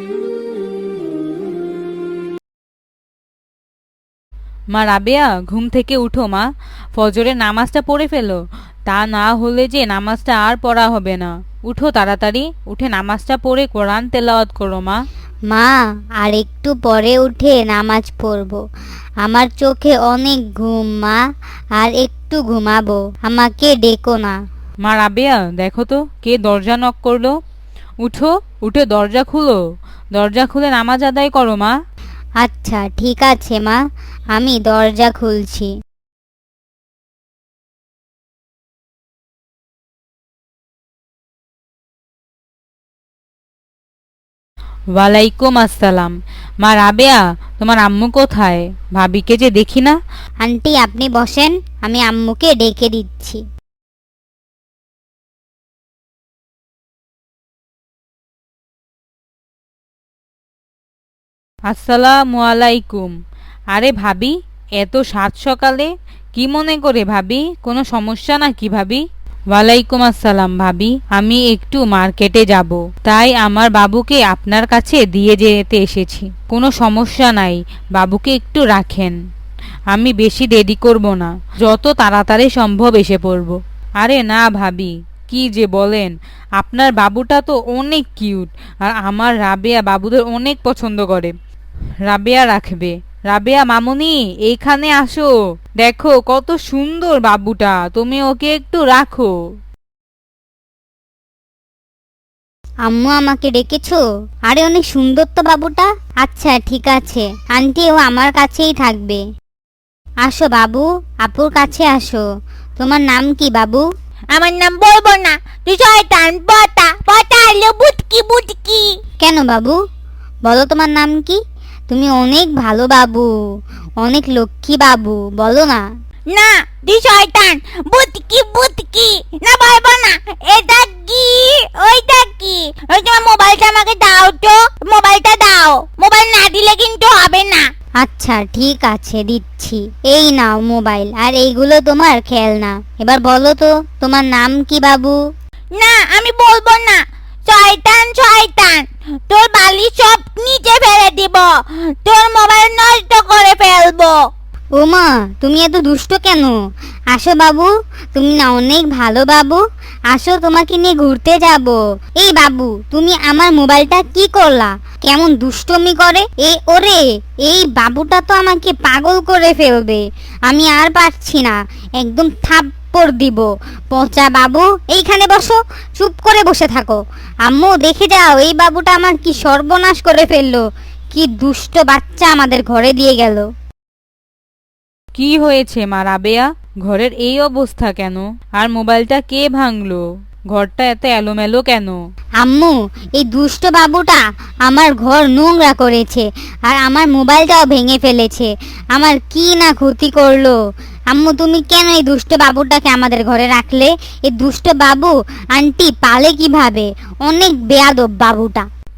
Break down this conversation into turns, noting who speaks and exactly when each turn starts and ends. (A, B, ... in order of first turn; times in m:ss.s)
0:04.7-0:15.0 A
0:15.5-0:18.6 B
0:19.2-0:21.2 B
0:21.8-0:24.4 B
0:24.8-0:27.3 A
0:28.0-0:29.6 A
0:30.1-0:31.7 A
0:32.4-0:33.8 B
0:34.3-0:35.7 B
0:45.0-0:50.0 A
0:50.4-0:53.4 B
1:01.7-1:03.2 A
1:03.7-1:19.2 A
1:19.9-1:31.3 A
1:32.1-1:39.3 A
1:42.8-1:49.2 B
1:50.2-1:52.2 B
1:52.8-1:53.8 B
1:54.3-1:58.9 C
1:59.2-1:59.8 B
2:00.4-2:01.4 B
2:01.9-2:03.3 B
2:04.0-2:05.8 B
2:06.3-2:17.6 C
2:18.0-2:25.2 B
2:25.8-2:34.3 C
2:34.8-2:36.5 B
2:37.1-3:03.5 B
3:05.2-3:12.0 A
3:12.4-3:20.6 B
3:21.1-3:28.6 B